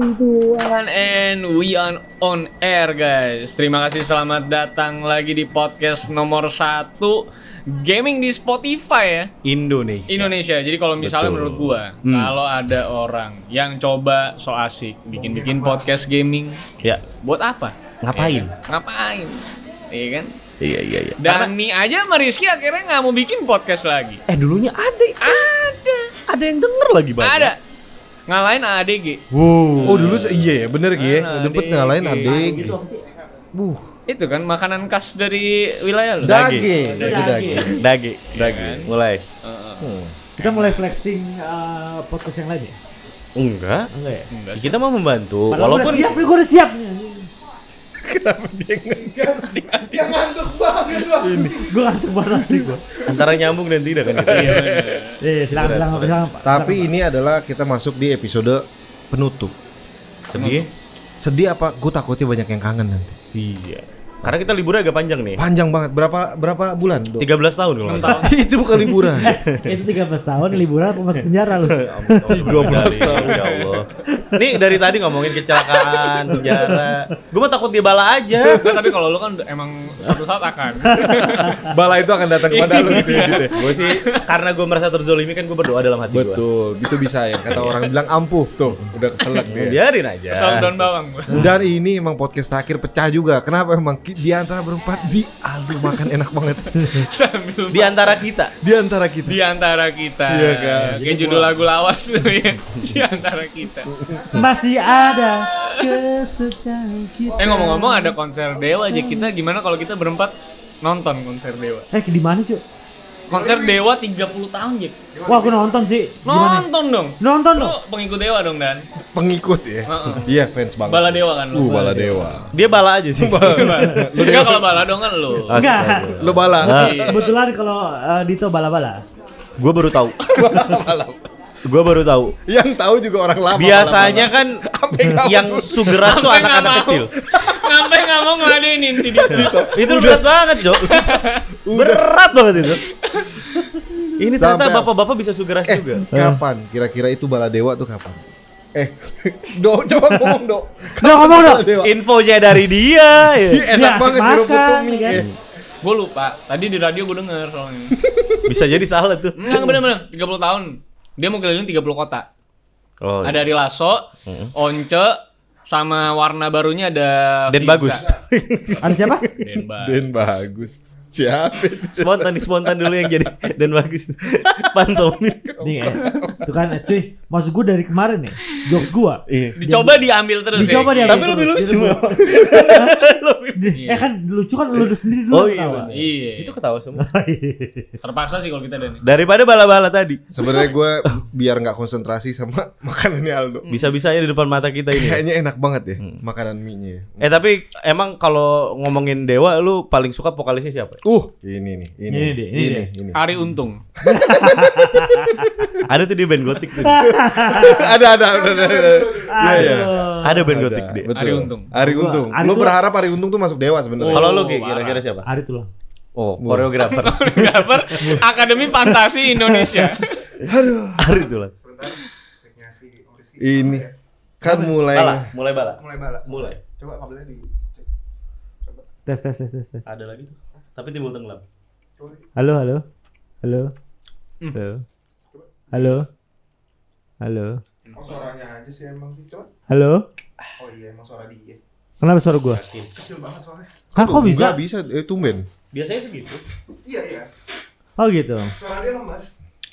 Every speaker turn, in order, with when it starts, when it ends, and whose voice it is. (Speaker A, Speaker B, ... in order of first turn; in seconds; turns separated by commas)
Speaker A: 0.3-9.3, Speaker B: 9.4-10.3, Speaker A: 10.1-20.3, Speaker B: 11.0-12.3, Speaker C: 15.2-15.8, Speaker B: 18.0-18.5, Speaker B: 20.6-21.5, Speaker A: 21.2-24.2, Speaker B: 24.3-25.5, Speaker A: 25.2-26.1, Speaker B: 26.3-27.5, Speaker A: 27.2-27.6, Speaker A: 28.3-30.2, Speaker D: 29.4-32.8, Speaker B: 29.5-30.4, Speaker A: 30.9-32.7, Speaker B: 32.3-32.9, Speaker E: 32.5-33.0, Speaker D: 33.5-33.9, Speaker A: 34.1-36.4, Speaker B: 36.2-36.7, Speaker D: 36.2-37.8, Speaker E: 36.9-37.8, Speaker A: 37.1-37.6, Speaker B: 37.2-39.2, Speaker A: 38.3-38.9, Speaker A: 39.4-40.8, Speaker D: 39.8-40.1, Speaker E: 40.4-42.8, Speaker B: 43.4-43.9, Speaker E: 43.9-44.3, Speaker A: 44.3-44.8, Speaker B: 44.5-46.3, Speaker E: 45.5-47.3, Speaker D: 48.0-50.0, Speaker C: 48.9-51.8, Speaker D: 51.0-51.6, Speaker E: 51.6-52.8, Speaker B: 53.0-55.0, Speaker A: 54.2-55.2, Speaker D: 54.3-54.6, Speaker E: 55.2-56.9, Speaker B: 55.5-56.1, Speaker D: 56.4-59.5, Speaker B: 60.3-60.7, Speaker A: 60.3-60.7, Speaker D: 61.2-63.2, Speaker B: 63.3-65.4, Speaker D: 64.2-64.6, Speaker D: 65.3-67.3, Speaker B: 67.2-68.3, Speaker A: 67.8-68.3, Speaker D: 68.0-69.3, Speaker B: 69.0-69.8, Speaker E: 69.1-73.2, Speaker B: 71.1-78.7, Speaker D: 72.3-73.4, Speaker A: 73.1-73.8, Speaker E: 74.1-74.8, Speaker A: 75.5-76.3, Speaker E: 76.3-76.9, Speaker D: 78.4-78.7, Speaker A: 78.5-81.7, Speaker D: 81.2-83.7, Speaker A: 82.3-84.2, Speaker B: 83.4-86.4, Speaker D: 86.1-89.8, Speaker B: 89.4-90.8, Speaker A: 90.3-91.5, Speaker D: 91.4-96.8, Speaker A: 96.8-98.2, Speaker B: 97.7-98.5, Speaker D: 98.6-99.4, Speaker A: 99.2-103.9, Speaker D: 100.3-101.5, Speaker D: 103.9-104.4, Speaker E: 104.3-108.1, Speaker C: 107.3-107.7, Speaker A: 107.4-111.9, Speaker E: 108.9-109.3, Speaker E: 111.9-112.6, Speaker C: 113.3-113.8, Speaker A: 113.3-115.0, Speaker C: 115.1-115.7, Speaker E: 115.3-116.7, Speaker A: 116.2-118.8, Speaker E: 117.2-117.8, Speaker D: 119.1-122.5, Speaker A: 119.9-120.3, Speaker A: 120.8-122.2, Speaker E: 121.6-122.0, Speaker B: 122.5-124.6, Speaker D: 123.2-124.8, Speaker A: 123.3-125.6, Speaker B: 125.5-127.1, Speaker E: 125.5-129.0, Speaker D: 126.1-127.1, Speaker A: 126.6-127.3, Speaker B: 129.6-130.3, Speaker D: 130.3-131.2, Speaker B: 131.7-132.3, Speaker D: 132.4-136.0, Speaker B: 133.5-137.1, Speaker A: 136.0-139.7, Speaker D: 137.2-137.7, Speaker D: 139.1-142.2, Speaker B: 139.3-140.9, Speaker A: 140.8-141.4, Speaker B: 141.7-142.8, Speaker A: 142.8-143.7, Speaker B: 144.2-146.1, Speaker D: 144.3-144.9, Speaker D: 145.7-148.2, Speaker E: 146.1-146.4, Speaker D: 148.7-151.9, Speaker E: 151.0-151.7, Speaker B: 151.8-153.7, Speaker D: 153.3-155.3, Speaker E: 153.7-155.2, Speaker B: 155.1-155.3, Speaker A: 155.8-158.0, Speaker D: 158.0-158.5, Speaker B: 158.5-159.6, Speaker A: 159.4-162.2, Speaker B: 163.0-163.5, Speaker A: 163.2-168.1, Speaker B: 164.3-164.5, Speaker B: 167.5-169.4, Speaker E: 168.8-169.3, Speaker A: 169.4-170.1, Speaker D: 169.8-173.2, Speaker B: 171.9-175.6, Speaker D: 175.5-176.4, Speaker E: 175.6-180.0, Speaker A: 176.0-176.3, Speaker B: 179.3-179.6, Speaker A: 179.6-181.4, Speaker E: 180.5-183.0, Speaker B: 180.6-183.8, Speaker E: 183.6-185.9, Speaker A: 183.8-184.1, Speaker B: 185.2-187.1, Speaker A: 185.9-186.6, Speaker E: 187.0-187.9, Speaker A: 188.0-189.0, Speaker B: 189.0-190.4, Speaker D: 190.3-193.7, Speaker A: 193.7-194.0, Speaker B: 193.7-195.2, Speaker D: 194.9-197.2, Speaker B: 197.2-201.0, Speaker D: 201.0-203.2, Speaker E: 202.1-202.9, Speaker A: 203.1-203.8, Speaker D: 204.0-205.7, Speaker E: 204.1-205.7, Speaker B: 205.8-207.1, Speaker E: 206.8-207.9, Speaker D: 207.0-214.4, Speaker C: 207.8-210.1, Speaker E: 209.3-210.5, Speaker B: 210.2-211.1, Speaker A: 211.1-211.7, Speaker E: 211.7-212.8, Speaker A: 214.0-215.0, Speaker B: 214.1-215.3, Speaker E: 215.2-215.7, Speaker B: 216.2-218.1, Speaker D: 216.4-216.8, Speaker A: 216.8-220.1, Speaker D: 220.4-221.1, Speaker B: 221.0-221.5, Speaker C: 221.1-223.9, Speaker D: 223.4-223.9, Speaker D: 224.4-225.3, Speaker B: 224.8-226.6, Speaker C: 225.8-227.9, Speaker E: 229.1-229.9, Speaker B: 229.8-231.4, Speaker C: 232.0-232.3, Speaker E: 232.3-232.8, Speaker E: 233.4-233.7, Speaker E: 234.5-234.8, Speaker C: 235.3-236.0, Speaker E: 235.7-236.1, Speaker E: 237.2-237.6, Speaker A: 237.9-238.1, Speaker C: 237.9-239.5, Speaker E: 239.7-240.0, Speaker C: 240.6-241.6, Speaker E: 242.0-242.6, Speaker B: 242.5-242.9, Speaker C: 242.9-243.8, Speaker E: 243.9-244.6, Speaker D: 243.9-245.5, Speaker B: 245.7-246.4, Speaker C: 246.8-247.3, Speaker E: 248.0-248.5, Speaker C: 248.5-249.4